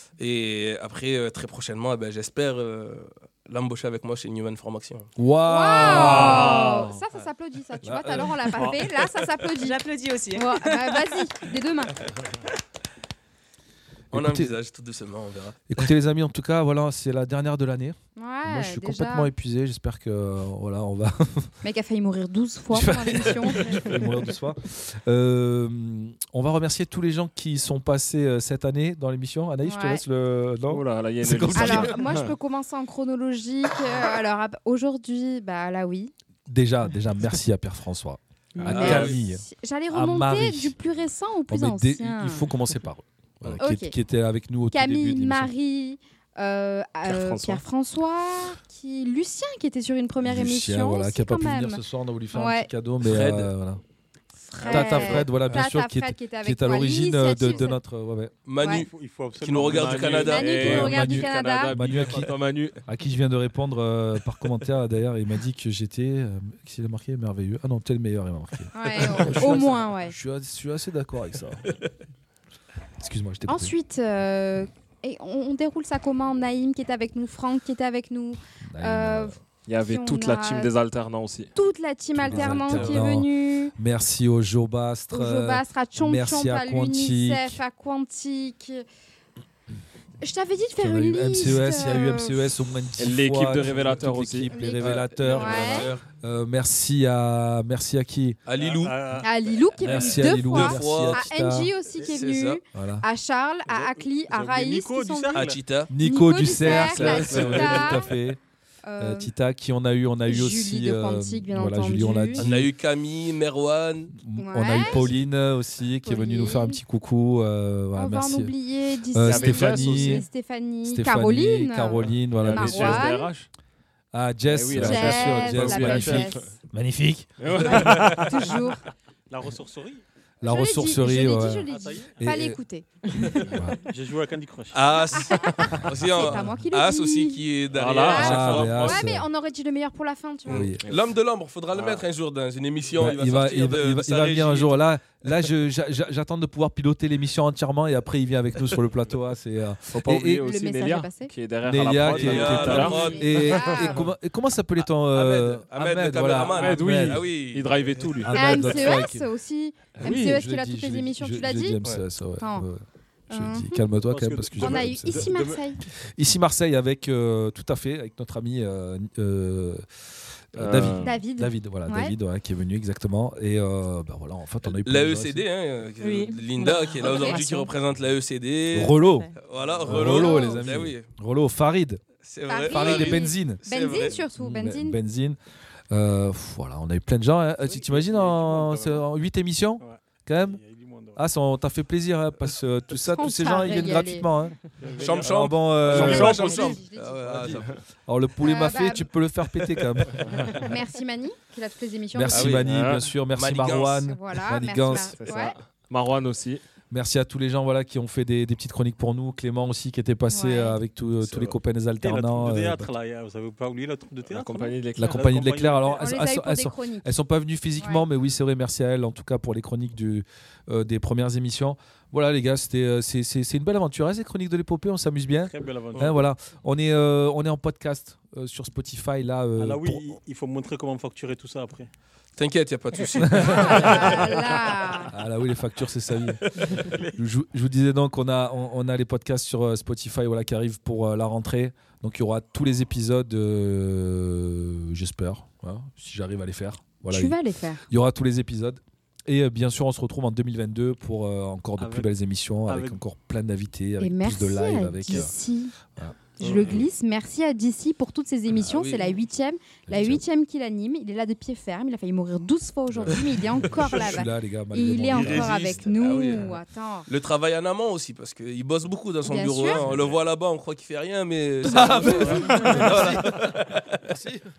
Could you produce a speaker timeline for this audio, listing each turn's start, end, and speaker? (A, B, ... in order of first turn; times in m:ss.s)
0:00.2-0:05.1 A
0:05.2-0:06.7 B
0:05.4-0:09.8 C
0:05.7-0:07.0 D
0:07.8-0:08.3 B
0:08.6-0:08.9 D
0:09.6-0:11.5 E
0:10.4-0:12.0 C
0:14.1-0:14.6 B
0:14.1-0:15.7 A
0:15.7-0:21.5 B
0:18.2-0:19.3 C
0:21.6-0:23.9 C
0:22.7-0:32.0 B
0:29.7-0:30.0 C
0:30.7-0:32.4 D
0:31.6-0:36.1 C
0:36.5-0:40.8 B
0:38.6-0:39.2 A
0:38.7-0:42.5 C
0:41.5-0:45.5 B
0:43.6-0:43.9 C
0:44.7-0:51.8 C
0:47.0-0:47.6 D
0:50.2-0:53.8 B
0:52.3-0:52.7 C
0:53.0-0:53.5 A
0:54.5-0:57.8 C
0:54.6-0:58.3 B
0:54.8-0:55.7 A
0:58.5-0:58.9 A
0:58.7-1:00.2 F
0:59.4-1:00.4 A
0:59.7-1:02.8 D
1:00.2-1:01.8 C
1:00.6-1:11.7 B
1:08.7-1:10.2 C
1:13.0-1:13.7 B
1:13.5-1:20.7 C
1:18.6-1:19.4 B
1:19.7-1:21.5 D
1:21.6-1:23.7 C
1:22.2-1:27.6 B
1:22.3-1:23.0 D
1:25.1-1:28.8 C
1:30.2-1:32.5 C
1:30.8-1:38.4 B
1:33.0-1:34.5 D
1:34.5-1:35.9 C
1:34.8-1:36.0 A
1:35.3-1:35.9 D
1:38.5-1:39.1 A
1:38.6-1:39.3 F
1:39.2-1:48.1 C
1:39.8-1:41.7 B
1:40.0-1:41.3 A
1:41.9-1:42.6 A
1:42.7-1:43.0 B
1:43.7-1:45.6 F
1:45.4-1:45.9 A
1:45.9-1:48.4 B
1:46.4-1:48.0 D
1:48.9-1:49.3 C
1:49.0-1:52.7 B
1:50.3-1:52.5 C
1:52.4-1:54.2 A
1:54.2-1:58.5 B
1:54.4-1:55.1 C
1:56.0-1:56.8 C
1:58.0-2:03.3 C
1:59.1-2:00.3 B
1:59.2-2:00.3 D
2:00.8-2:03.1 B
2:02.4-2:03.5 D
2:04.1-2:08.1 B
2:04.5-2:06.5 D
2:04.8-2:06.5 C
2:07.4-2:08.4 D
2:07.7-2:08.8 C
2:07.9-2:08.2 F
2:09.3-2:10.0 F
2:10.4-2:12.6 B
2:10.4-2:13.2 C
2:11.6-2:12.1 F
2:13.5-2:13.8 B
2:13.8-2:14.8 F
2:14.7-2:19.0 A
2:15.1-2:17.4 C
2:17.7-2:19.0 D
2:18.0-2:20.7 C
2:18.1-2:19.3 B
2:20.5-2:24.8 A
2:20.5-2:20.8 B
2:21.7-2:22.1 D
2:23.0-2:30.4 B
2:29.9-2:34.1 D
2:30.4-2:31.3 C
2:31.6-2:37.3 B
2:32.1-2:33.7 A
2:32.4-2:34.0 C
2:35.0-2:37.7 A
2:36.6-2:38.8 D
2:38.2-2:39.3 B
2:38.3-2:41.8 C
2:40.0-2:42.8 B
2:42.4-2:42.6 C
2:43.3-2:43.8 C
2:43.3-2:45.5 B
2:44.1-2:45.6 F
2:44.6-2:45.8 C
2:46.2-2:49.8 B
2:50.6-2:55.4 B
2:50.6-2:51.2 D
2:51.0-2:52.1 C
2:54.8-3:01.1 A
2:56.0-2:57.2 E
2:57.0-2:57.5 C
2:57.4-2:57.7 B
2:58.7-2:59.3 B
2:58.9-2:59.4 E
2:59.8-3:02.0 B
3:00.0-3:00.6 C
3:02.2-3:04.2 A
3:02.5-3:05.0 C
3:02.7-3:03.6 B
3:04.3-3:05.4 B
3:05.9-3:10.6 B
3:07.6-3:09.1 F
3:09.8-3:11.2 F
3:11.2-3:14.6 B
3:13.0-3:14.3 C
3:14.7-3:15.5 F
3:15.0-3:17.8 A
3:15.2-3:16.4 B
3:15.9-3:16.2 D
3:16.2-3:17.3 C
3:17.4-3:20.6 B
3:18.4-3:19.1 C
3:20.2-3:20.7 D
3:20.6-3:22.7 C
3:22.1-3:25.2 B
3:22.3-3:22.7 A
3:22.6-3:23.1 D
3:23.3-3:24.1 A
3:24.0-3:25.6 C
3:24.9-3:26.6 D
3:26.9-3:32.9 B
3:30.3-3:30.8 C
3:31.2-3:31.6 D
3:32.0-3:36.0 F
3:34.3-3:35.2 D
3:35.0-3:50.1 B
3:36.0-3:37.1 C
3:45.5-3:46.2 F
3:49.6-3:51.9 F
3:52.4-3:54.4 A
3:53.2-3:54.0 B
3:53.4-3:55.1 C
3:55.1-4:15.3 B
3:56.8-3:57.2 F
4:07.1-4:07.8 C
4:11.8-4:12.1 F
4:12.7-4:13.0 F
4:14.0-4:15.7 C
4:15.9-4:16.9 B
4:16.4-4:27.1 C
4:18.6-4:19.2 A
4:19.9-4:20.2 B
4:22.9-4:25.8 B
4:25.2-4:26.5 A
4:27.1-4:34.0 A
4:29.2-4:29.9 C
4:31.6-4:33.2 C
4:31.7-4:33.5 B
4:34.1-4:34.5 B